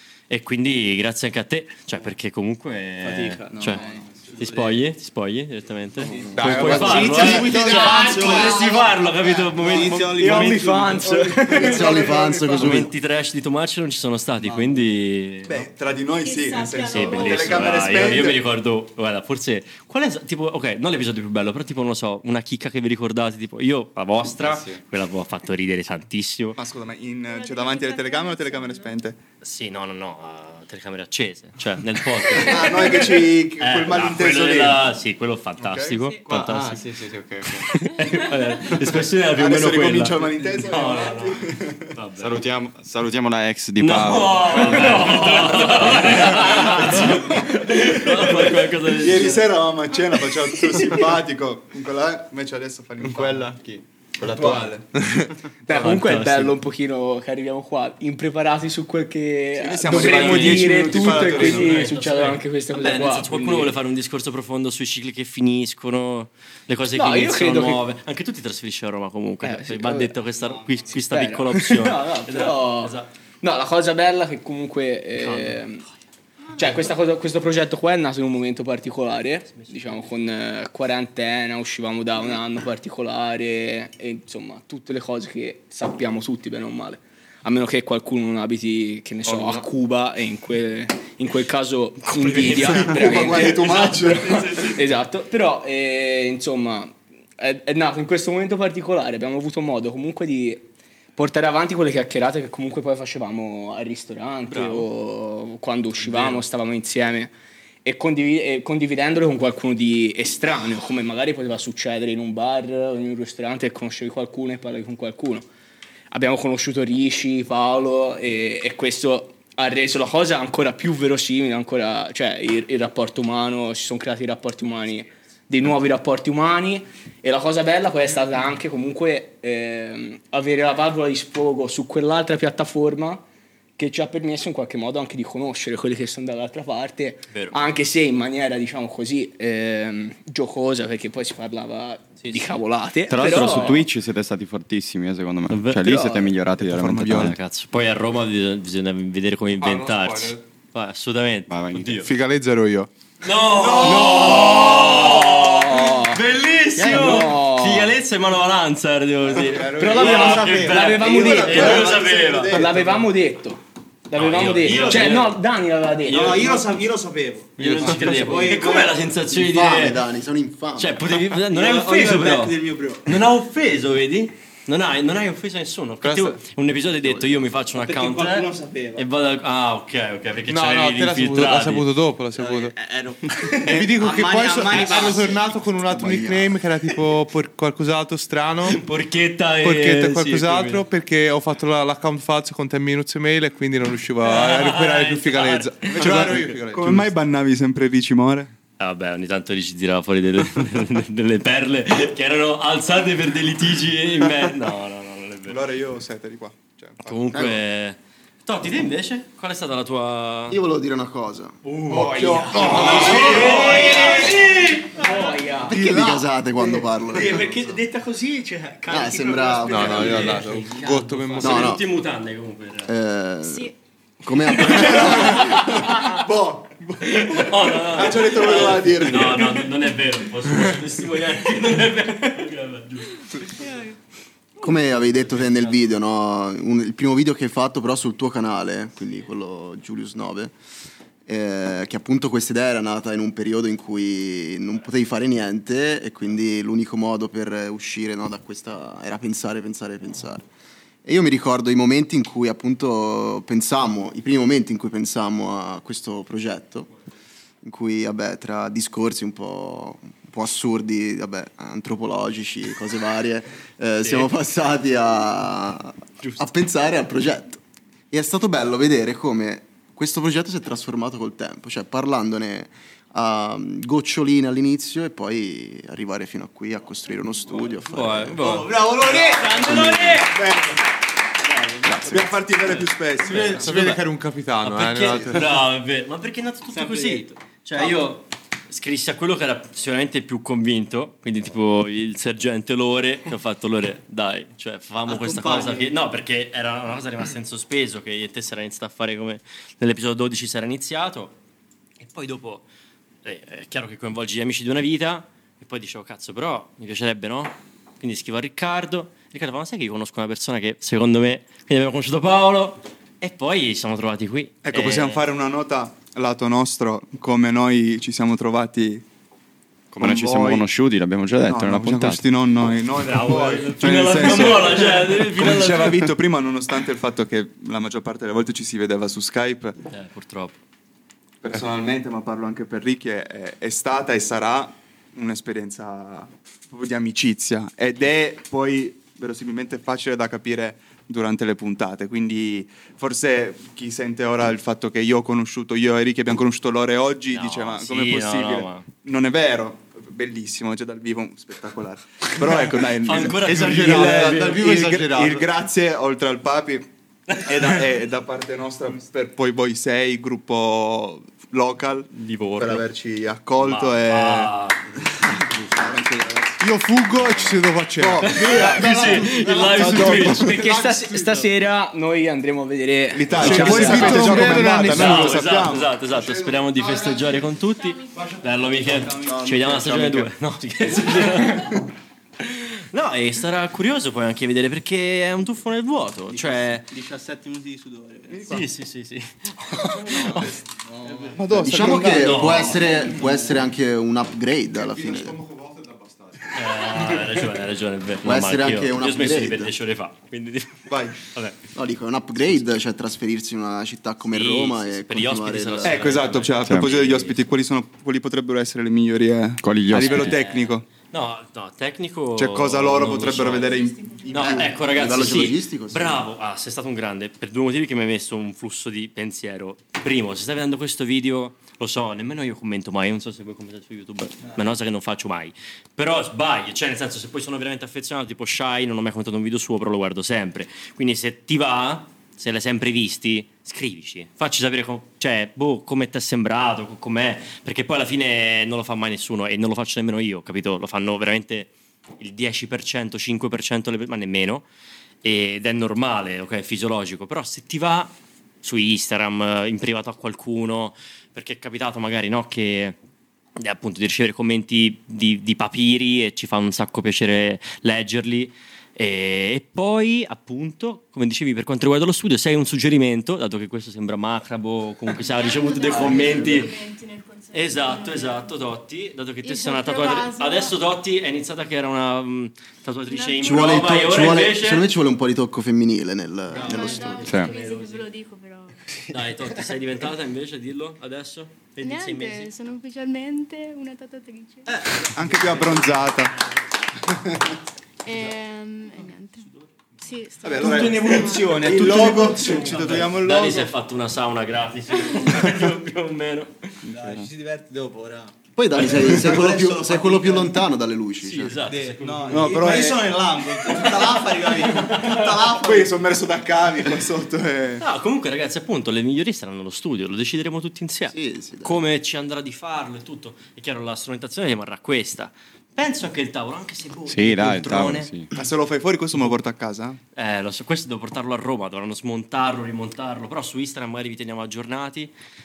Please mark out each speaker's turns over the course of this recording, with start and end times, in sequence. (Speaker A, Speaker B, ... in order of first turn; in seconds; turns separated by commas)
Speaker A: 0.3-3.8, Speaker B: 3.0-4.8, Speaker A: 4.4-10.9, Speaker B: 6.0-12.6, Speaker C: 6.3-7.0, Speaker D: 6.3-8.3, Speaker E: 6.8-8.9, Speaker E: 10.1-12.6, Speaker C: 11.5-12.9, Speaker A: 12.3-15.6, Speaker B: 14.4-14.8, Speaker F: 15.5-18.4, Speaker G: 16.1-18.2, Speaker A: 16.9-26.6, Speaker H: 24.4-24.8, Speaker F: 26.6-29.2, Speaker G: 27.2-28.9, Speaker A: 29.4-36.9, Speaker F: 32.3-34.9, Speaker F: 35.6-36.5, Speaker H: 36.3-37.8, Speaker A: 37.5-42.4, Speaker G: 38.1-38.4, Speaker F: 39.4-41.9, Speaker H: 42.2-45.2, Speaker A: 43.8-49.5, Speaker E: 44.7-48.3, Speaker F: 46.8-47.2, Speaker F: 48.4-53.6, Speaker H: 53.1-53.8, Speaker F: 54.2-54.9, Speaker H: 54.4-54.6, Speaker D: 55.0-55.2, Speaker E: 55.7-63.7, Speaker A: 55.7-56.5, Speaker F: 59.6-61.9, Speaker A: 59.8-73.1, Speaker E: 66.9-67.8, Speaker E: 69.4-70.2, Speaker B: 70.4-70.9, Speaker E: 70.9-75.8, Speaker A: 75.2-75.7, Speaker E: 76.6-107.3, Speaker A: 79.5-80.1, Speaker A: 92.1-94.8, Speaker F: 92.8-94.8, Speaker A: 104.5-104.9, Speaker A: 106.0-106.4, Speaker E: 107.8-115.5, Speaker E: 116.1-133.2, Speaker E: 133.8-143.9, Speaker A: 137.3-137.6, Speaker H: 143.1-147.4, Speaker A: 145.5-146.3, Speaker F: 146.6-147.3, Speaker A: 147.1-152.1, Speaker D: 149.6-150.4, Speaker H: 151.5-152.0, Speaker D: 151.9-152.9, Speaker A: 153.2-162.7, Speaker F: 153.5-155.3, Speaker E: 153.8-156.2, Speaker D: 153.8-154.5, Speaker E: 156.8-157.9, Speaker D: 156.9-157.2, Speaker D: 159.3-160.6, Speaker E: 159.8-161.9, Speaker B: 160.3-162.6, Speaker F: 161.1-163.0, Speaker E: 162.5-166.6, Speaker A: 164.1-165.4, Speaker B: 164.7-165.0, Speaker A: 166.1-166.6, Speaker B: 166.1-169.2, Speaker D: 167.6-168.5, Speaker A: 167.6-170.0, Speaker C: 169.3-171.1, Speaker A: 170.8-181.9, Speaker B: 171.5-173.1, Speaker D: 176.0-176.4, Speaker B: 177.7-179.1, Speaker D: 180.5-182.8, Speaker B: 182.3-185.5, Speaker D: 183.6-188.8, Speaker C: 185.8-186.6, Speaker A: 188.6-190.8, Speaker D: 189.6-197.1, Speaker A: 194.2-196.4, Speaker F: 195.9-198.5, Speaker A: 198.8-205.6, Speaker F: 205.5-207.5, Speaker A: 207.0-210.6, Speaker C: 210.5-211.6, Speaker A: 211.6-214.7, Speaker E: 211.9-221.4, Speaker F: 212.0-213.7, Speaker D: 212.5-213.6, Speaker B: 212.8-214.4, Speaker C: 215.6-217.5, Speaker C: 218.9-220.4, Speaker D: 219.7-221.8, Speaker A: 219.7-222.9, Speaker C: 221.4-221.8, Speaker C: 222.9-223.7, Speaker G: 223.4-223.7, Speaker C: 224.2-225.6, Speaker F: 224.7-229.7, Speaker A: 224.7-225.9, Speaker A: 227.0-233.5, Speaker G: 233.5-234.0, Speaker C: 234.6-240.5, Speaker A: 235.2-235.8, Speaker C: 241.2-250.4, Speaker C: 251.1-256.9, Speaker C: 257.6-267.6, Speaker A: 264.0-264.3, Speaker A: 266.2-266.5, Speaker C: 268.1-278.4, Speaker A: 277.7-280.4, Speaker B: 278.4-280.2, Speaker C: 279.6-280.2, Speaker F: 280.3-280.8, Speaker B: 281.4-282.3, Speaker F: 281.9-283.8, Speaker A: 282.0-284.0, Speaker D: 283.4-285.6, Speaker A: 284.6-301.3, Speaker B: 286.7-288.1, Speaker B: 295.1-295.9, Speaker A: 302.0-302.6, Speaker A: 303.2-315.2, Speaker F: 314.6-319.0, Speaker H: 319.9-322.2, Speaker F: 320.0-320.7, Speaker F: 321.4-329.8, Speaker A: 322.9-326.1, Speaker A: 329.9-330.6, Speaker F: 331.4-366.5, Speaker A: 347.3-348.9, Speaker A: 352.5-354.6, Speaker D: 353.4-355.5, Speaker A: 362.1-362.9, Speaker A: 363.6-365.9, Speaker D: 366.6-371.5, Speaker A: 367.1-367.7, Speaker F: 368.0-370.4, Speaker A: 368.2-370.6, Speaker E: 370.3-374.8, Speaker F: 373.1-375.9, Speaker D: 373.4-375.5, Speaker A: 373.5-381.8, Speaker B: 376.8-377.1, Speaker G: 377.8-378.2, Speaker B: 378.2-380.2, Speaker A: 382.4-386.9, Speaker B: 386.3-388.6, Speaker F: 388.3-388.6, Speaker A: 388.4-390.6, Speaker B: 390.1-391.6, Speaker F: 391.4-392.9, Speaker D: 391.5-392.2, Speaker C: 391.6-395.4, Speaker A: 391.9-392.9, Speaker D: 392.8-393.4, Speaker D: 394.7-397.2, Speaker A: 396.5-401.6, Speaker C: 398.2-399.7, Speaker F: 400.9-401.2, Speaker C: 401.8-406.2, Speaker A: 404.3-407.4, Speaker F: 405.8-410.9, Speaker H: 406.6-406.9, Speaker H: 409.6-410.4, Speaker A: 410.0-444.6, Speaker F: 412.4-414.7, Speaker G: 413.6-414.7, Speaker C: 414.8-416.3, Speaker A: 445.2-453.0, Speaker A: 453.6-466.8, Speaker G: 465.1-468.5, Speaker A: 467.5-474.9, Speaker G: 469.4-470.8, Speaker G: 473.1-474.0, Speaker C: 473.4-477.3, Speaker A: 476.5-478.1, Speaker G: 476.6-478.8, Speaker A: 479.1-482.5, Speaker G: 481.8-484.7, Speaker B: 484.7-486.0, Speaker F: 485.1-486.4, Speaker G: 488.1-489.5, Speaker G: 490.0-492.0, Speaker F: 490.4-493.7, Speaker E: 490.6-493.0, Speaker B: 492.5-493.1, Speaker A: 492.8-496.8, Speaker G: 495.0-495.4, Speaker B: 496.9-500.6, Speaker H: 497.0-497.2, Speaker C: 498.6-501.6, Speaker A: 498.8-499.1, Speaker A: 501.2-502.7, Speaker B: 501.6-505.9, Speaker F: 502.3-503.2, Speaker F: 504.9-507.8, Speaker A: 507.8-518.1, Speaker C: 511.1-511.8, Speaker H: 517.1-518.3, Speaker F: 518.3-520.0, Speaker A: 520.1-525.1